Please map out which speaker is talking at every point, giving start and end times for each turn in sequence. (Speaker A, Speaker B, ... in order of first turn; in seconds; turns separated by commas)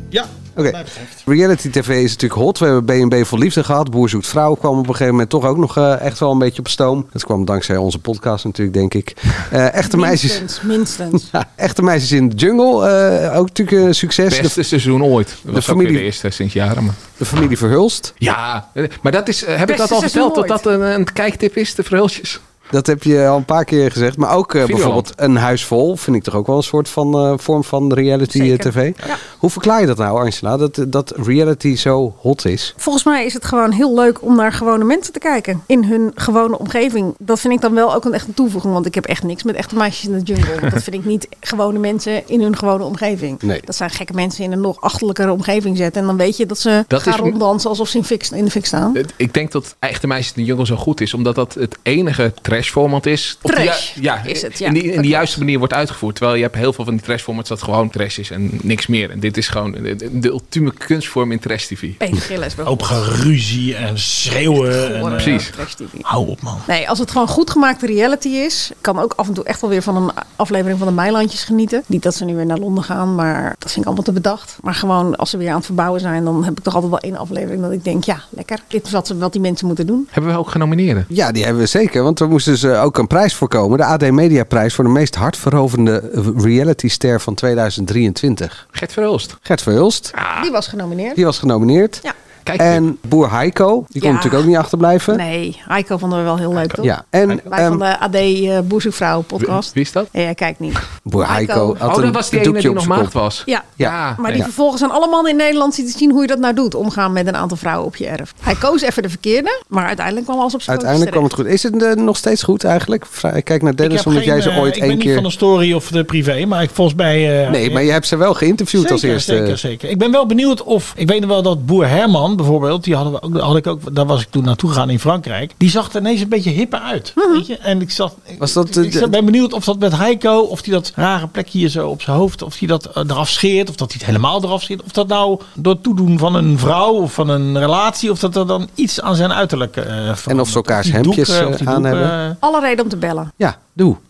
Speaker A: 0.1-1.1, Speaker B: 0.6-10.5, Speaker C: 9.8-11.3, Speaker B: 11.3-14.6, Speaker D: 14.3-17.0, Speaker B: 15.5-16.1, Speaker B: 17.2-18.1, Speaker D: 18.2-22.4, Speaker C: 19.7-20.6, Speaker B: 22.7-32.7, Speaker D: 24.6-25.1, Speaker C: 28.3-29.2, Speaker C: 32.8-49.0, Speaker D: 46.9-47.4, Speaker D: 49.0-62.0, Speaker C: 53.5-55.4, Speaker C: 62.0-63.0, Speaker A: 62.7-65.5, Speaker C: 64.5-66.1, Speaker D: 65.2-65.5, Speaker A: 66.0-66.7, Speaker C: 66.7-80.1, Speaker D: 80.1-81.1, Speaker B: 81.1-88.6, Speaker D: 88.7-89.4, Speaker B: 89.4-90.1, Speaker D: 90.1-90.5, Speaker C: 90.4-91.2, Speaker B: 91.2-92.0, Speaker D: 92.5-92.8, Speaker B: 92.6-95.2, Speaker C: 94.0-94.5, Speaker C: 95.1-101.8, Speaker B: 96.8-97.8, Speaker D: 99.4-100.1, Speaker B: 101.1-103.1, Speaker D: 101.8-104.5, Speaker C: 103.5-111.3, Speaker B: 103.8-104.5, Speaker B: 110.7-115.3, Speaker A: 113.8-117.9, Speaker B: 117.5-119.6, Speaker A: 118.8-142.4, Speaker C: 127.2-127.4, Speaker B: 128.4-129.1, Speaker B: 140.3-142.2, Speaker C: 142.4-143.3, Speaker B: 143.4-144.0